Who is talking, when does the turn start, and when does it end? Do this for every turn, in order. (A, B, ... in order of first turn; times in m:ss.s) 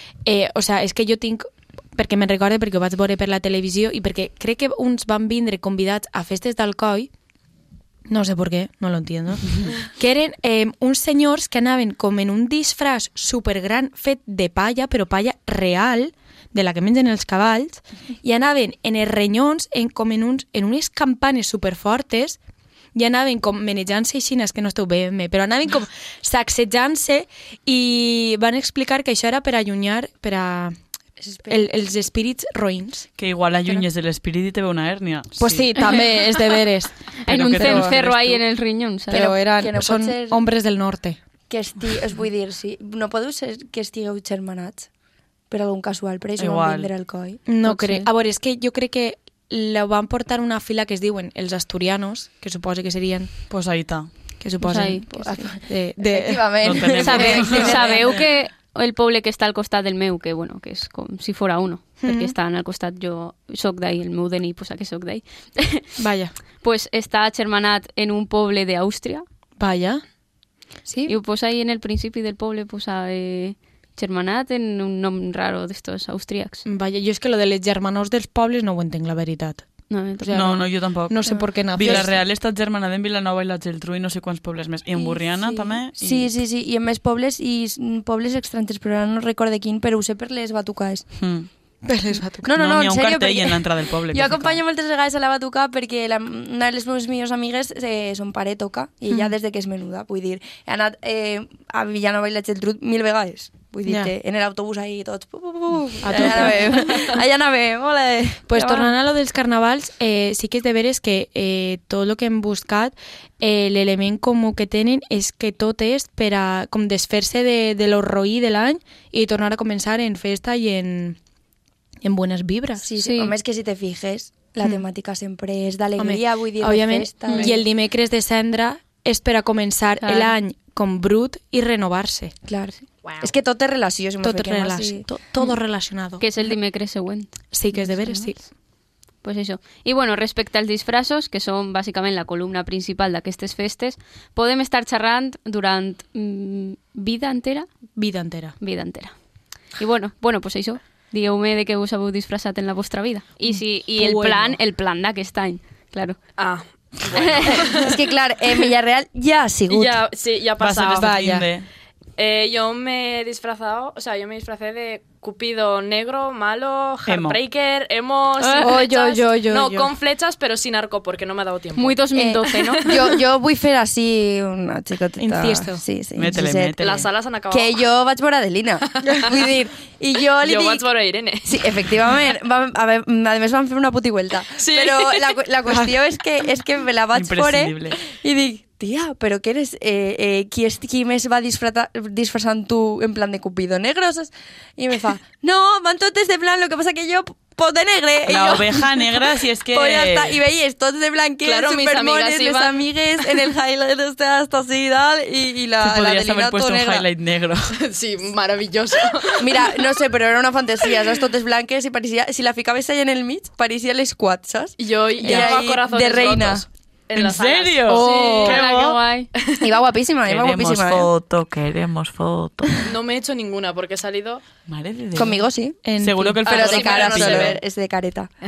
0:00.2-0:07.1 A
0:08.1-0:22.4 A
0:22.9-0:30.8 A
0:31.2-0:31.7 B
0:31.5-0:33.1 A
0:33.2-0:35.8 C
0:35.4-0:37.0 A
0:37.3-0:39.2 D
0:37.3-0:38.4 C
0:37.5-0:38.0 A
0:39.1-0:41.2 A
0:39.1-0:40.4 B
0:41.5-0:44.9 B
0:45.5-0:47.4 B
0:46.4-0:46.9 C
0:47.5-0:53.4 A
0:47.6-0:48.1 D
0:53.5-0:54.1 C
0:54.4-0:58.0 A
0:54.6-0:55.4 D
0:55.2-0:58.2 B
0:56.6-0:58.0 C
0:57.0-1:05.9 D
1:02.0-1:02.3 A
1:06.0-1:06.3 A
1:06.6-1:09.2 D
1:09.6-1:10.0 A
1:10.9-1:11.1 A
1:11.1-1:16.6 D
1:16.6-1:19.6 A
1:19.9-1:20.6 D
1:20.2-1:22.2 A
1:20.3-1:26.3 C
1:21.3-1:22.0 B
1:25.1-1:31.1 B
1:31.2-1:31.5 C
1:31.8-1:32.5 A
1:32.4-1:48.9 B
1:32.5-1:34.6 C
1:43.9-1:44.1 A
1:46.0-1:47.1 A
1:48.5-2:01.2 A
2:02.0-2:02.8 A
2:02.8-2:07.6 B
2:03.0-2:03.4 D
2:06.0-2:12.3 A
2:10.0-2:10.4 D
2:12.5-2:15.0 B
2:13.0-2:13.3 E
2:14.2-2:16.2 A
2:16.2-2:18.3 D
2:17.5-2:18.4 A
2:19.2-2:27.7 D
2:28.0-2:28.6 A
2:28.6-2:29.1 D
2:29.8-2:36.2 D
2:33.5-2:34.6 A
2:36.4-2:38.1 E
2:37.2-2:37.7 D
2:37.5-2:40.0 B
2:39.7-2:41.2 E
2:40.6-2:41.7 C
2:41.0-2:41.5 A
2:42.2-2:52.8 E
2:47.1-2:47.4 C
2:48.4-2:49.0 D
2:48.6-2:49.9 A
2:51.8-2:53.1 D
2:52.1-2:56.8 B
2:55.2-2:55.8 A
2:56.2-2:57.1 C
2:56.8-2:57.9 E
2:57.5-3:00.8 B
2:59.0-2:59.3 E
3:00.4-3:02.2 E
3:01.5-3:27.1 B
3:04.6-3:05.4 E
3:07.1-3:08.0 C
3:18.3-3:20.4 C
3:21.4-3:23.5 E
3:25.8-3:27.8 C
3:27.8-3:29.9 E
3:29.4-3:36.6 B
3:34.8-3:38.6 E
3:37.2-3:39.0 C
3:37.9-3:38.6 A
3:38.4-3:39.3 D
3:39.4-3:39.6 E
3:39.6-3:41.1 B
3:40.3-3:42.8 C
3:42.8-3:44.4 E
3:44.7-3:47.6 C
3:45.2-3:45.8 B
3:45.8-3:46.4 A
3:46.4-3:48.3 B
3:46.5-3:47.6 E